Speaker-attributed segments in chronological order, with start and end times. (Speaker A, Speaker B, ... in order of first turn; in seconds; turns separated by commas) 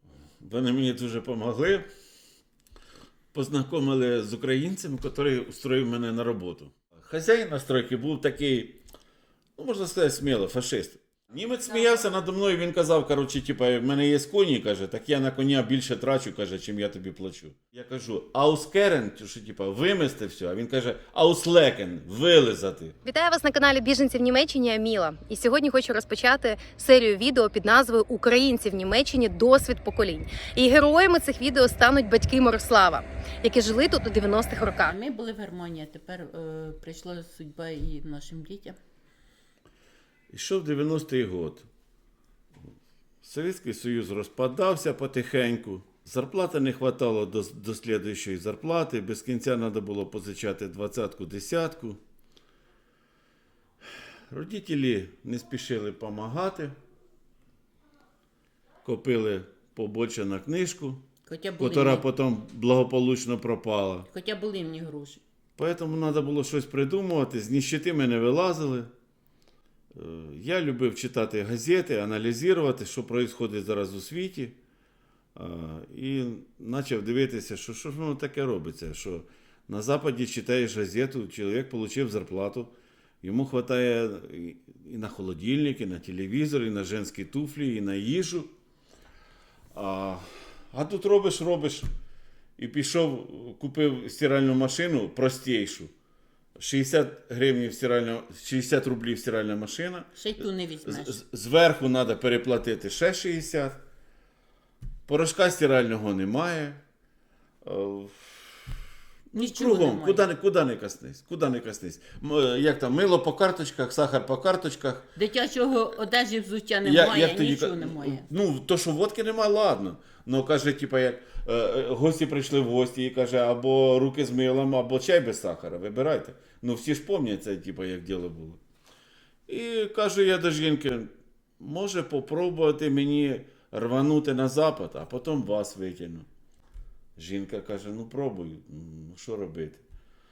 Speaker A: 0.4-1.9, Speaker A: 3.3-8.8, Speaker A: 9.6-22.9, Speaker B: 11.7-12.1, Speaker B: 23.0-34.9, Speaker C: 34.9-38.8, Speaker A: 40.3-41.6, Speaker A: 43.2-52.0, Speaker A: 54.3-56.7, Speaker A: 58.8-61.0, Speaker C: 61.2-62.0, Speaker A: 61.6-64.1, Speaker C: 64.1-65.2, Speaker A: 65.6-68.9, Speaker A: 69.9-74.5, Speaker A: 75.3-88.5, Speaker A: 89.7-91.9, Speaker A: 92.6-95.9, Speaker A: 96.6-103.8, Speaker C: 100.2-101.2, Speaker A: 105.1-106.8, Speaker A: 107.6-108.6, Speaker A: 109.3-115.1, Speaker C: 109.3-110.2, Speaker C: 115.1-118.3, Speaker A: 116.8-128.6, Speaker A: 129.5-136.3, Speaker A: 137.2-139.8